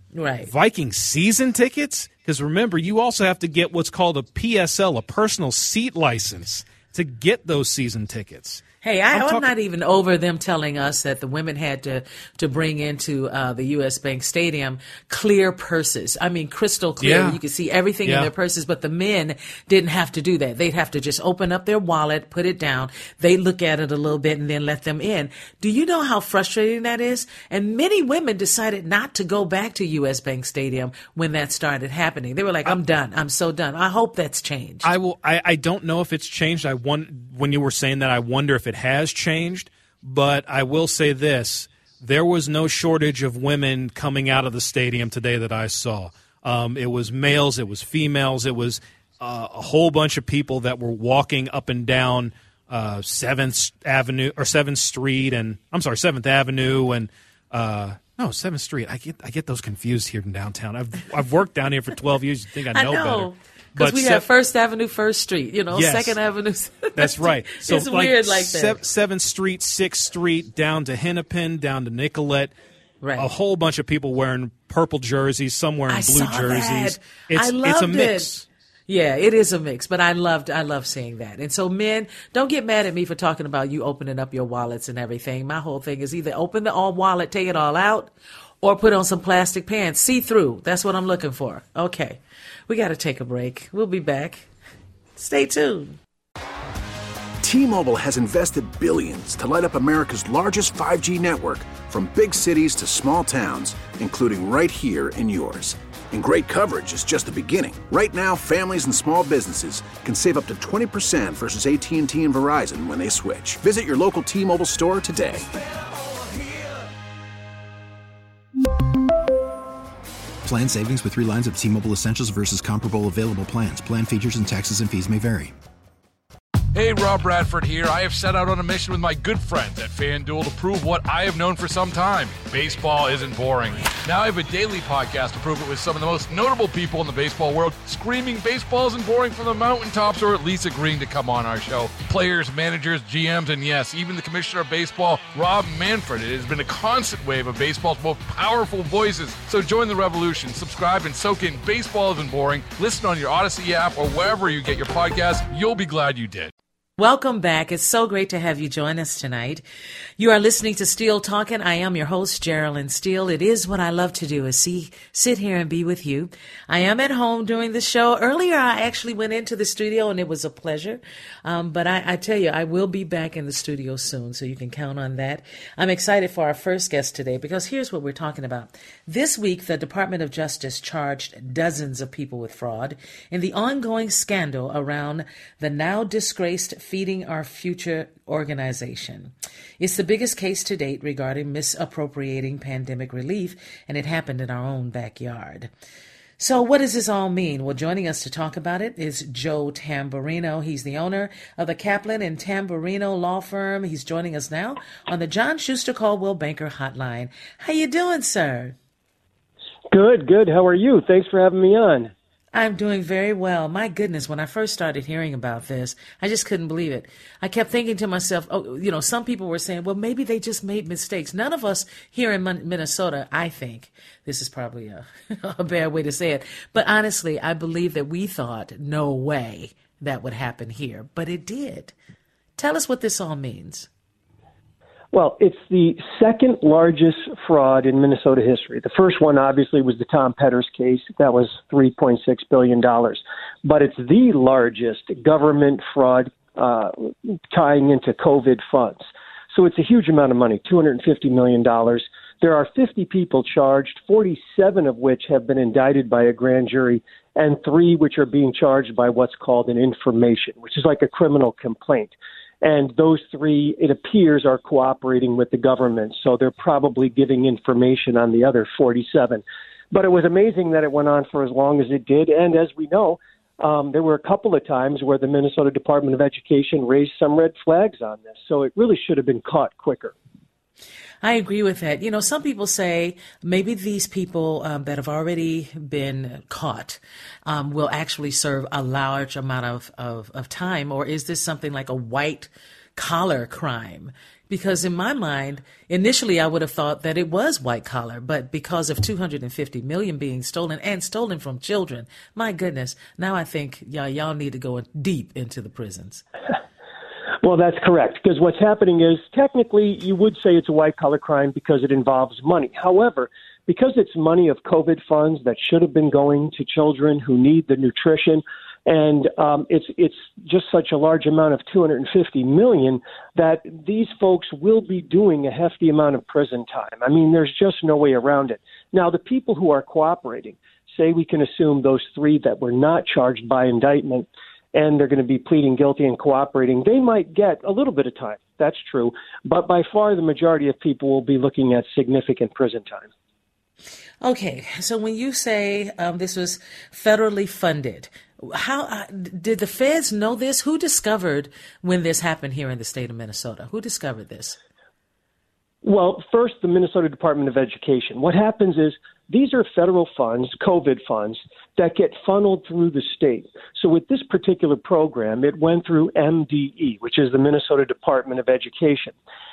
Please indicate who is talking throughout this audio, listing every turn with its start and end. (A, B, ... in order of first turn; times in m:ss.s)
0:00.1-0:00.5 A
0:00.5-0:09.5 B
0:08.8-0:34.9 A
0:17.0-0:17.4 B
0:18.0-0:18.3 B
0:34.8-1:04.3 B
1:02.7-1:08.8 A
1:05.7-1:06.2 B
1:07.0-1:12.5 B
1:13.0-1:13.3 A
1:13.2-1:18.4 B
1:15.9-1:18.3 A
1:18.9-1:34.5 A
1:35.2-1:36.0 A
1:37.4-1:55.5 C
2:00.4-2:05.5 D
2:06.7-2:36.5 E
2:37.0-2:39.6 A
2:40.2-3:15.7 A
3:16.4-3:28.8 A
3:29.9-3:32.1 F
3:32.5-3:51.9 A
3:52.6-3:53.9 A
3:55.1-4:40.1 F
4:41.2-5:06.2 A
5:07.4-5:43.1 F
5:44.2-5:54.6 A
5:55.8-6:09.2 F